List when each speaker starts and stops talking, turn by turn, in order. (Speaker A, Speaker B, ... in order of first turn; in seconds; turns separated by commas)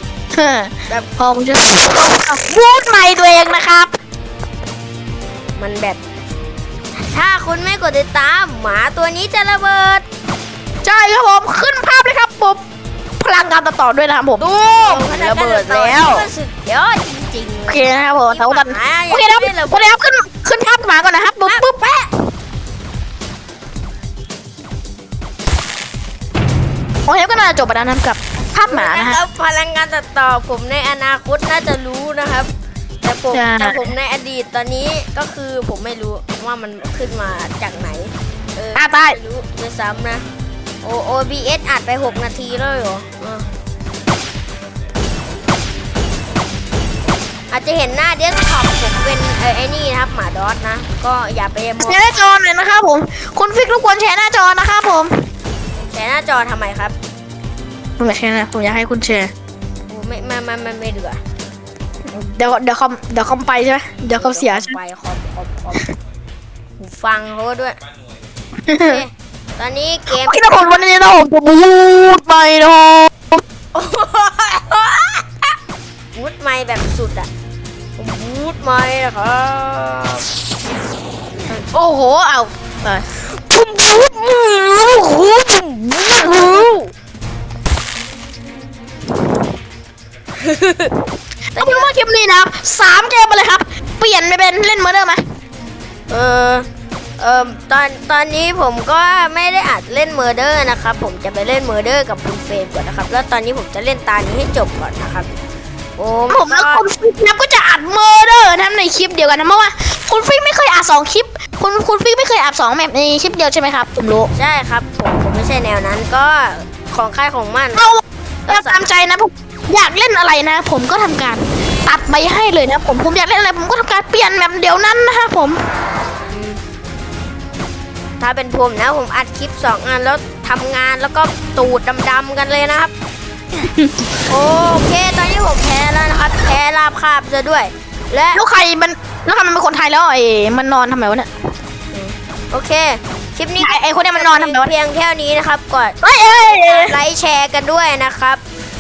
Speaker A: 0.3-3.9, Speaker B: 5.6-6.0, Speaker B: 6.9-10.0, Speaker A: 10.8-12.6, Speaker A: 13.2-16.3, Speaker B: 14.4-20.0, Speaker A: 17.7-21.8, Speaker B: 21.5-22.1, Speaker A: 27.1-29.2, Speaker B: 28.6-32.5, Speaker B: 33.0-40.2, Speaker A: 33.3-33.9, Speaker A: 38.8-39.2, Speaker B: 40.8-43.5, Speaker B: 47.5-52.2, Speaker A: 51.8-55.1, Speaker B: 55.8-57.0, Speaker A: 58.0-59.3, Speaker B: 59.9-61.2, Speaker A: 62.1-64.8, Speaker B: 64.2-65.9, Speaker B: 66.8-67.8, Speaker A: 68.7-69.0, Speaker B: 68.7-70.5, Speaker A: 70.1-73.2, Speaker B: 73.7-75.5, Speaker B: 76.1-77.3, Speaker B: 78.0-80.3, Speaker A: 81.7-86.8, Speaker B: 86.1-86.9, Speaker B: 90.4-90.9, Speaker A: 91.6-95.2, Speaker B: 91.6-91.9, Speaker B: 96.1-96.7, Speaker B: 97.2-105.4, Speaker B: 106.0-106.8, Speaker A: 106.3-114.3, Speaker B: 114.3-117.9, Speaker A: 117.8-125.6, Speaker B: 118.5-118.9, Speaker B: 126.3-126.6, Speaker B: 128.2-132.9, Speaker A: 133.6-134.0, Speaker B: 134.3-138.4, Speaker A: 138.3-141.3, Speaker B: 141.9-148.4, Speaker A: 143.6-144.7, Speaker A: 146.0-147.0